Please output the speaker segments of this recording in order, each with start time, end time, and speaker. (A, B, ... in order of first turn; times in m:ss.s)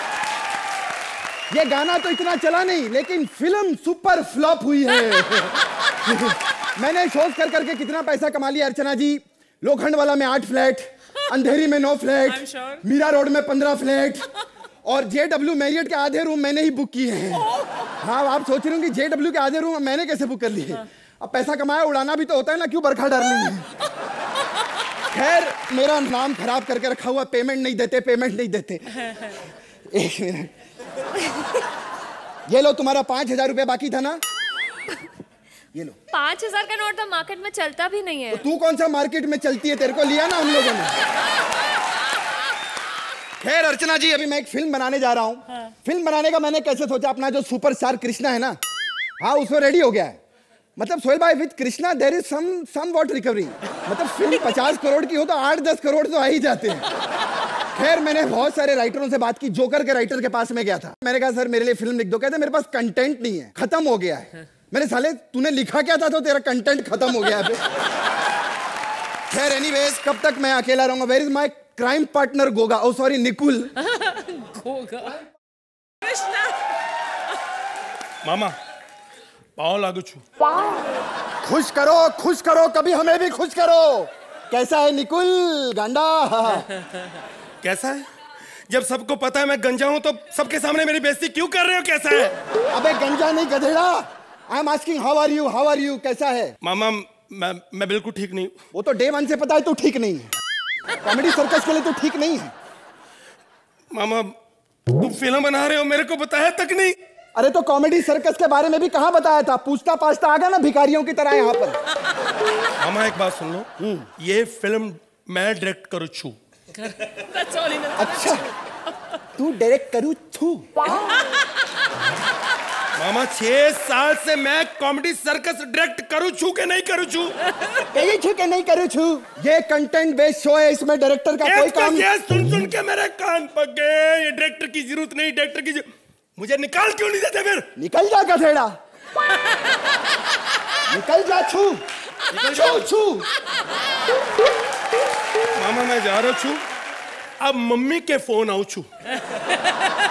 0:01.5-0:14.3 A
0:14.8-0:23.7 A
0:25.1-0:29.4 A
0:29.9-0:30.5 A
0:32.5-0:34.2 A
0:36.1-0:38.4 B
0:38.3-0:41.0 A
0:43.4-0:48.6 A
0:49.2-0:50.2 A
0:50.8-0:56.9 A
0:57.7-1:07.6 A
1:09.3-1:13.8 A
1:18.2-1:18.5 C
1:19.6-1:20.2 C
1:21.4-1:26.7 A
1:27.6-1:28.0 C
1:28.7-1:32.3 C
1:32.7-1:36.6 A
1:36.6-1:38.5 C
1:38.7-1:40.3 A
1:41.0-1:42.5 A
1:43.9-1:44.3 C
1:45.0-1:47.0 C
1:47.4-1:51.8 A
1:52.8-1:57.4 C
1:53.8-1:54.1 A
1:57.9-1:58.5 A
1:59.4-2:01.2 A
2:03.0-2:07.4 C
2:07.8-2:12.1 A
2:11.4-2:15.8 C
2:16.4-2:17.6 C
2:17.8-2:18.7 A
2:20.9-2:21.8 A
2:22.3-2:22.8 C
2:22.4-2:23.3 A
2:25.6-2:26.6 C
2:27.4-2:28.9 C